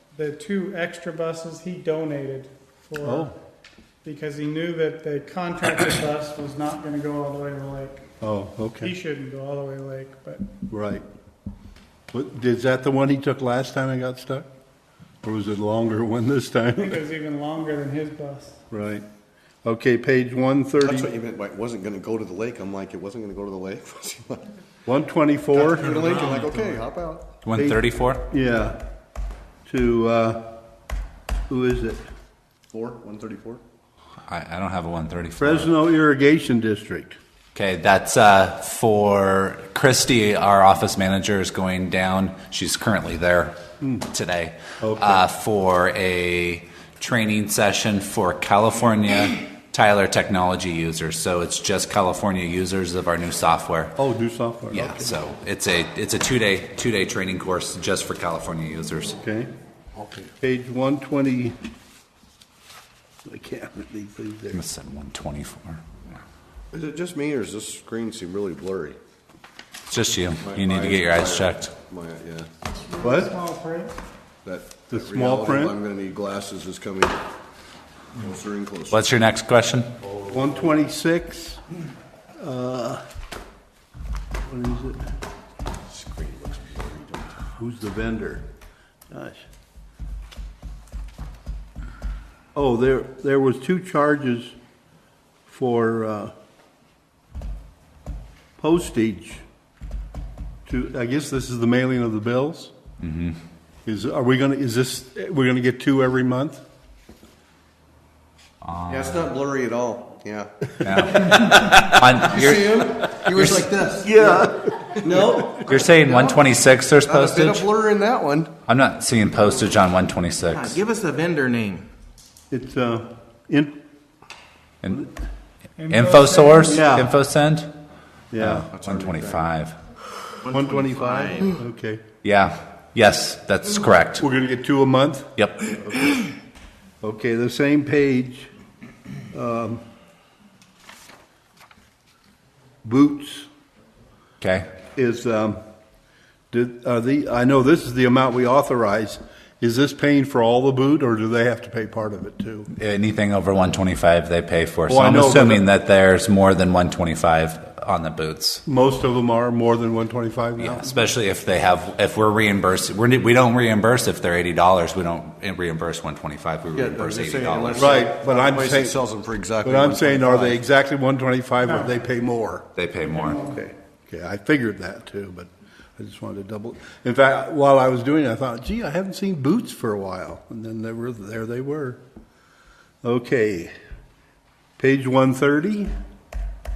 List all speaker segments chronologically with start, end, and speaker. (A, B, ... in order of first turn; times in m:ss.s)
0:00.1-0:03.3 A
0:03.0-0:03.3 B
0:04.0-0:08.0 A
0:08.2-0:08.9 B
0:08.8-0:10.4 A
0:10.7-0:11.0 B
0:12.1-0:14.5 B
0:15.2-0:17.0 B
0:16.8-0:18.6 A
0:18.7-0:19.0 B
0:19.6-0:21.1 B
0:20.8-0:24.5 C
0:24.8-0:26.0 B
0:25.5-0:27.4 C
0:27.4-0:28.2 D
0:27.5-0:28.8 B
0:29.6-0:30.5 B
0:31.5-0:32.0 B
0:32.7-0:33.6 C
0:34.3-0:35.7 D
0:35.4-0:37.2 B
0:37.5-0:54.0 D
0:43.8-0:44.1 B
0:44.8-0:45.2 B
0:54.0-0:55.2 B
0:54.7-0:59.2 D
0:59.2-1:01.6 B
1:03.2-1:04.6 B
1:04.5-1:05.8 D
1:06.7-1:09.0 C
1:09.9-1:11.7 D
1:10.4-1:12.5 C
1:12.7-1:13.9 A
1:13.0-1:13.3 B
1:14.4-1:17.2 C
1:14.9-1:15.8 B
1:18.1-1:19.0 C
1:18.9-1:19.9 D
1:20.3-1:21.6 B
1:22.4-1:23.0 B
1:24.4-1:25.0 B
1:25.9-1:27.4 C
1:27.6-1:28.4 B
1:29.1-1:29.4 B
1:32.5-1:34.6 B
1:35.5-1:36.3 B
1:38.6-1:39.4 B
1:40.7-1:42.7 B
1:43.0-1:43.4 D
1:43.8-1:46.6 B
1:48.6-1:49.3 D
1:48.9-1:51.2 C
1:50.8-1:54.1 D
1:52.1-1:54.1 C
1:53.8-1:54.4 E
1:54.0-1:55.5 B
1:55.0-1:56.5 C
1:55.6-1:57.7 D
1:57.0-1:58.5 C
1:58.6-2:00.8 D
2:00.5-2:01.9 E
2:02.5-2:03.8 B
2:04.8-2:05.1 D
2:05.8-2:06.9 A
2:05.9-2:07.7 D
2:06.7-2:07.2 B
2:08.3-2:08.7 B
2:08.4-2:09.8 D
2:08.7-2:09.4 C
2:10.4-2:11.5 E
2:10.5-2:12.0 B
2:12.2-2:14.2 D
2:14.2-2:15.3 B
2:15.4-2:15.8 D
2:17.0-2:18.5 B
2:19.3-2:19.8 B
2:22.8-2:23.5 B
2:24.4-2:24.7 D
2:25.0-2:25.6 B
2:26.5-2:32.7 B
2:32.7-2:38.6 D
2:34.9-2:35.6 B
2:38.6-2:41.0 B
2:40.6-2:48.0 D
2:46.7-2:50.6 C
2:47.8-2:49.0 B
2:49.6-2:52.7 B
2:51.6-2:52.0 A
2:52.8-2:53.4 D
2:53.2-3:02.0 B
2:53.3-2:53.6 A
3:03.0-3:03.7 B
3:04.8-3:05.9 B